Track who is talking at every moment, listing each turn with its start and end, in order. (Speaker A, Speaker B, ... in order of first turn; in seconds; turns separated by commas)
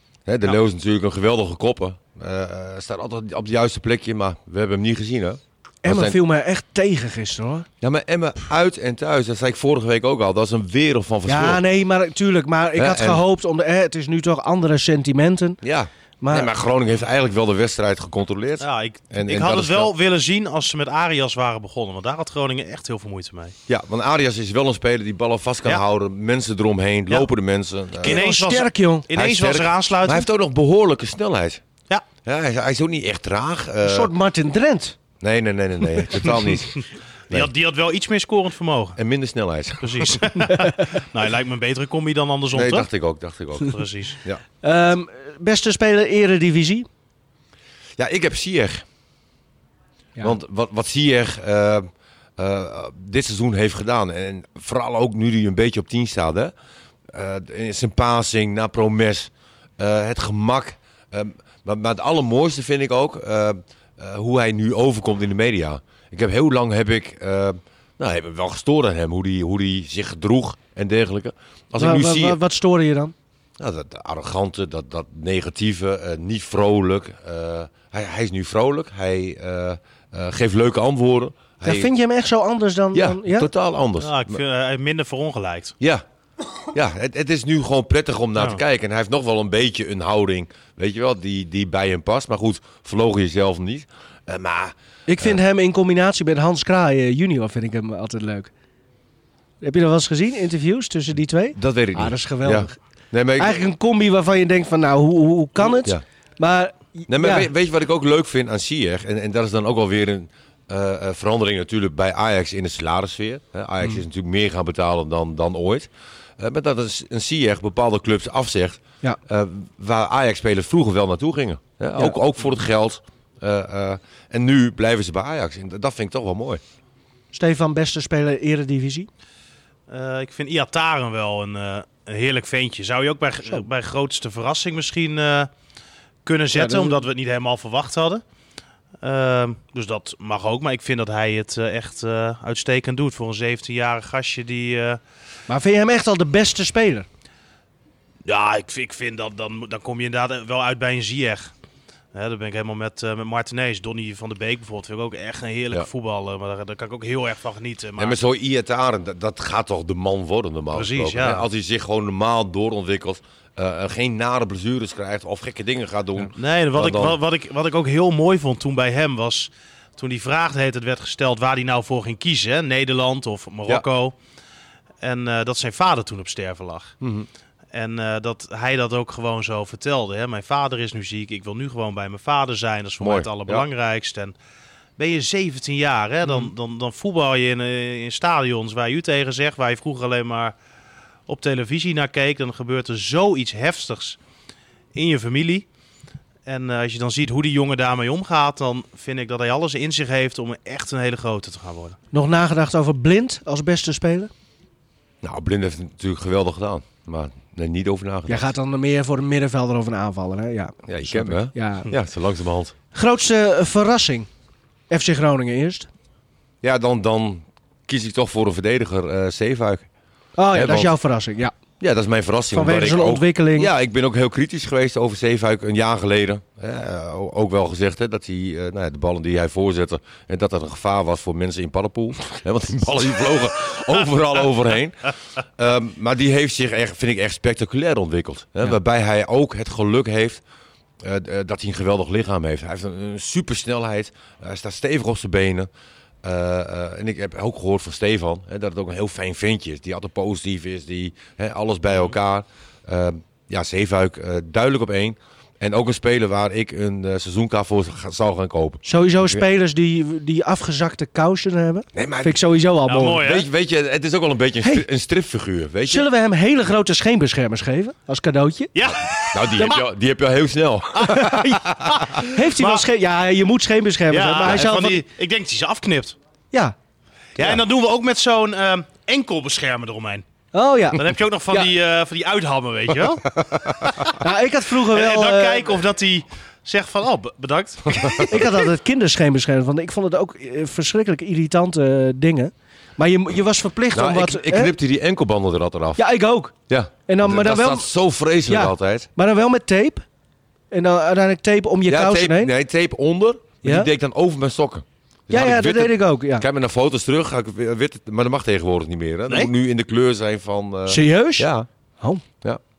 Speaker A: 0.2-6.2, Speaker B: 5.8-7.7, Speaker A: 7.8-11.6, Speaker B: 11.3-15.6, Speaker A: 12.8-13.2, Speaker A: 15.6-19.9, Speaker B: 16.2-16.5, Speaker C: 18.6-23.5, Speaker A: 23.7-28.2, Speaker C: 28.0-30.2, Speaker B: 28.0-29.1, Speaker A: 29.1-31.6, Speaker A: 32.2-34.1, Speaker B: 33.8-35.0, Speaker A: 35.2-37.5, Speaker C: 36.8-39.0, Speaker A: 39.0-40.3, Speaker C: 39.8-42.9, Speaker A: 42.5-44.4, Speaker C: 43.6-44.2, Speaker B: 44.6-46.9, Speaker A: 48.0-48.8, Speaker A: 50.2-56.5, Speaker A: 57.1-72.4, Speaker B: 71.8-73.1, Speaker A: 73.6-81.9, Speaker B: 81.6-83.5, Speaker A: 82.9-84.4, Speaker C: 84.0-85.7, Speaker A: 86.7-95.4, Speaker B: 95.1-98.5, Speaker B: 99.6-102.8, Speaker A: 101.5-103.6, Speaker B: 103.4-107.5, Speaker A: 107.1-126.6, Speaker B: 127.3-129.1, Speaker C: 129.9-135.5, Speaker C: 136.2-138.2, Speaker B: 136.5-137.0, Speaker C: 139.0-145.0, Speaker B: 145.5-147.1, Speaker C: 148.2-151.5, Speaker C: 152.1-158.2, Speaker A: 158.0-167.2, Speaker C: 160.7-161.4, Speaker C: 166.3-174.1, Speaker C: 175.0-176.9, Speaker A: 177.0-177.3, Speaker C: 177.7-184.3, Speaker A: 183.0-183.7, Speaker C: 185.0-190.5, Speaker C: 191.3-194.2, Speaker C: 194.9-195.7, Speaker C: 196.4-202.0, Speaker B: 202.1-204.3, Speaker A: 205.2-208.5, Speaker B: 208.3-211.9, Speaker A: 210.9-212.7, Speaker B: 212.9-214.3, Speaker B: 214.9-215.9, Speaker A: 216.6-219.8, Speaker B: 220.4-221.5, Speaker A: 220.5-220.9, Speaker A: 221.8-240.4, Speaker B: 222.5-223.7, Speaker A: 241.0-245.7, Speaker A: 246.2-259.4, Speaker B: 258.8-263.2, Speaker A: 261.9-262.4, Speaker C: 262.9-263.5, Speaker A: 263.2-266.1, Speaker B: 265.9-268.7, Speaker C: 268.7-269.8, Speaker A: 268.9-272.1, Speaker C: 271.0-272.9, Speaker B: 271.1-271.5, Speaker B: 272.2-275.0, Speaker C: 274.1-276.1, Speaker C: 277.4-280.2, Speaker B: 280.5-281.7, Speaker C: 280.9-284.1, Speaker A: 283.4-283.8, Speaker B: 284.2-285.8, Speaker C: 284.9-288.4, Speaker A: 287.9-288.4, Speaker B: 288.2-294.7, Speaker A: 293.9-296.0, Speaker B: 296.0-296.5, Speaker A: 296.7-299.1, Speaker B: 297.1-297.9, Speaker B: 298.4-300.0, Speaker B: 300.7-302.5, Speaker A: 301.9-311.7, Speaker B: 303.6-303.9, Speaker B: 305.3-306.4, Speaker B: 310.9-311.5